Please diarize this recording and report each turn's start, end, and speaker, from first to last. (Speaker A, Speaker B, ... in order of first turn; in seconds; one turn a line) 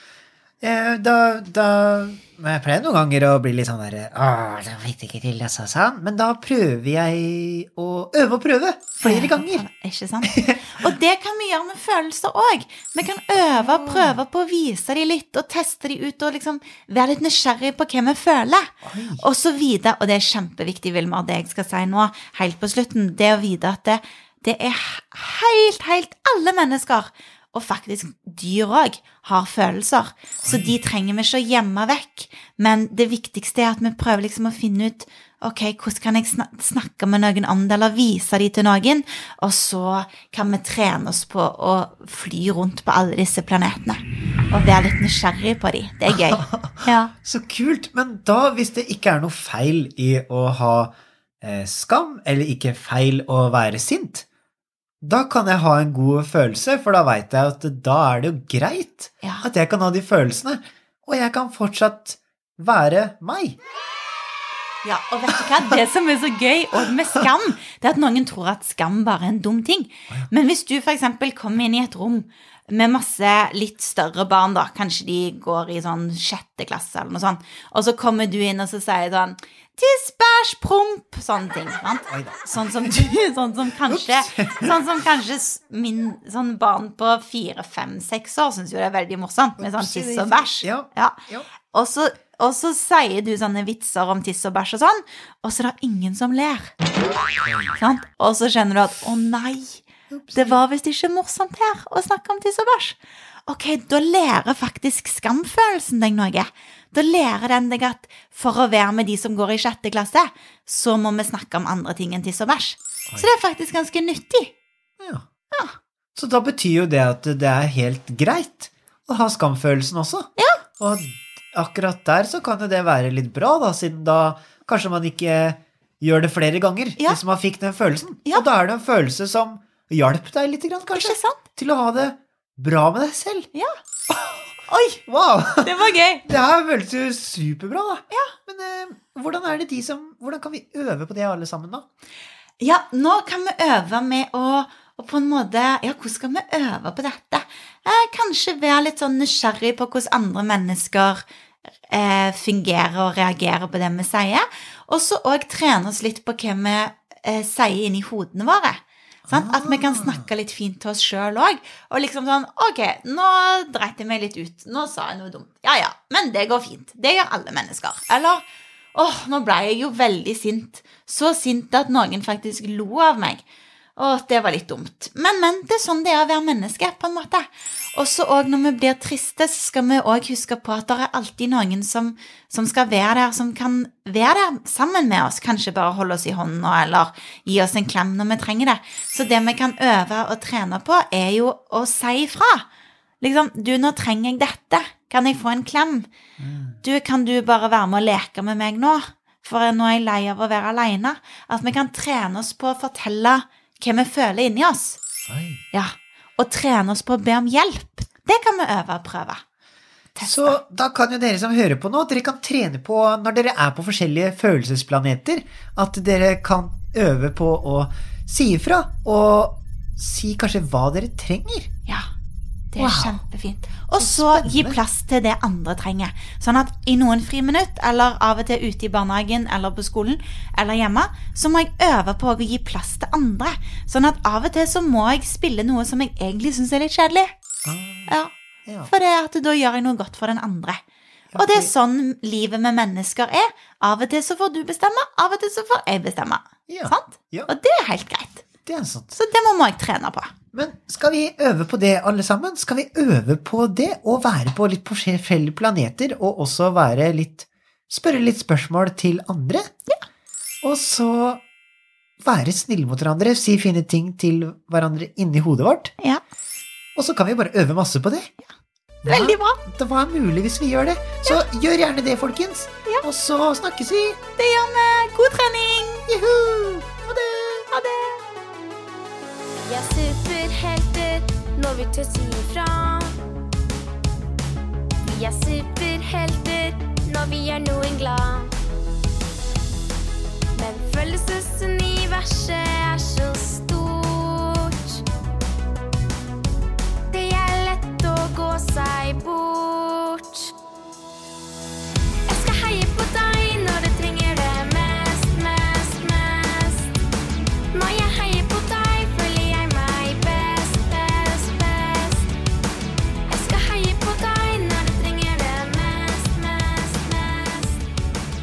Speaker A: 0.6-9.7
Speaker B: 9.0-47.1
Speaker A: 10.2-10.9
Speaker A: 13.8-14.2
Speaker A: 18.8-19.2
Speaker A: 30.4-30.7
Speaker A: 46.1-54.3
Speaker A: 55.0-63.6
Speaker B: 64.8-91.2
Speaker A: 82.1-83.2
Speaker A: 83.9-84.8
Speaker A: 89.6-91.5
Speaker B: 91.7-96.8
Speaker A: 97.5-97.7
Speaker B: 97.7-114.5
Speaker A: 100.1-100.6
Speaker A: 115.0-115.3
Speaker B: 115.5-115.8
Speaker A: 116.2-133.5
Speaker B: 120.4-120.6
Speaker B: 130.9-131.4
Speaker B: 133.5-133.8
Speaker A: 134.1-141.9
Speaker B: 134.7-135.0
Speaker B: 135.6-136.2
Speaker B: 142.6-151.2
Speaker B: 151.9-168.4
Speaker A: 159.3-160.3
Speaker B: 168.9-173.4
Speaker B: 174.0-192.7
Speaker B: 193.2-196.1
Speaker A: 196.4-196.8
Speaker B: 196.8-205.0
Speaker A: 205.3-205.6
Speaker B: 205.7-209.4
Speaker B: 210.1-210.6
Speaker A: 210.2-221.7
Speaker B: 222.7-237.3
Speaker A: 222.8-223.2
Speaker A: 224.0-224.8
Speaker A: 237.7-238.9
Speaker B: 238.1-238.3
Speaker B: 238.8-240.8
Speaker A: 241.3-241.7
Speaker B: 241.3-248.4
Speaker A: 246.7-247.5
Speaker A: 248.7-249.2
Speaker B: 249.2-250.3
Speaker A: 250.5-259.7
Speaker A: 260.6-261.4
Speaker A: 262.2-265.9
Speaker A: 267.0-268.3
Speaker A: 269.0-274.2
Speaker B: 269.1-269.6
Speaker B: 274.4-276.1
Speaker A: 276.1-276.9
Speaker B: 277.0-278.2
Speaker C: 279.6-283.2
Speaker C: 285.0-288.6
Speaker C: 290.5-295.1
Speaker C: 297.1-300.6
Speaker C: 302.3-306.9
Speaker C: 307.7-312.3
Speaker C: 313.3-317.8